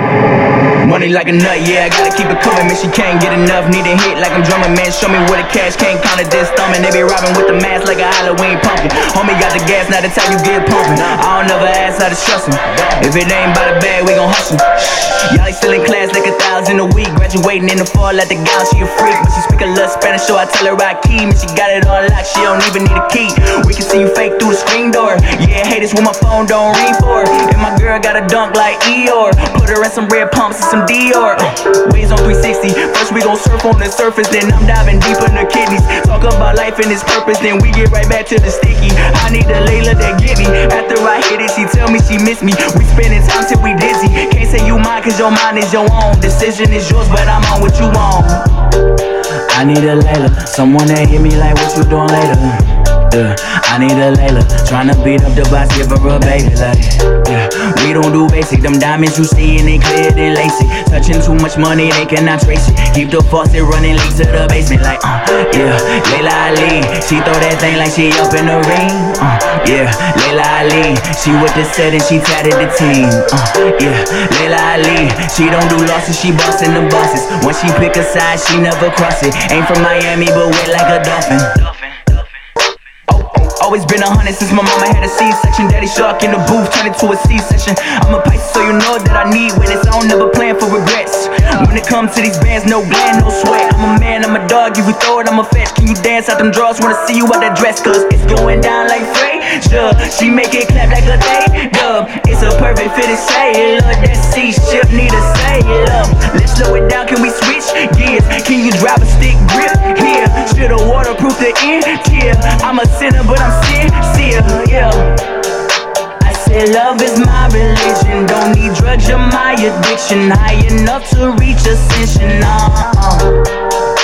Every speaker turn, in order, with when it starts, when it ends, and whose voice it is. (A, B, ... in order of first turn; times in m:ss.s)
0:00.8-0:48.5 A
0:49.5-1:22.1 A
1:23.1-1:55.1 A
1:56.2-2:03.4 A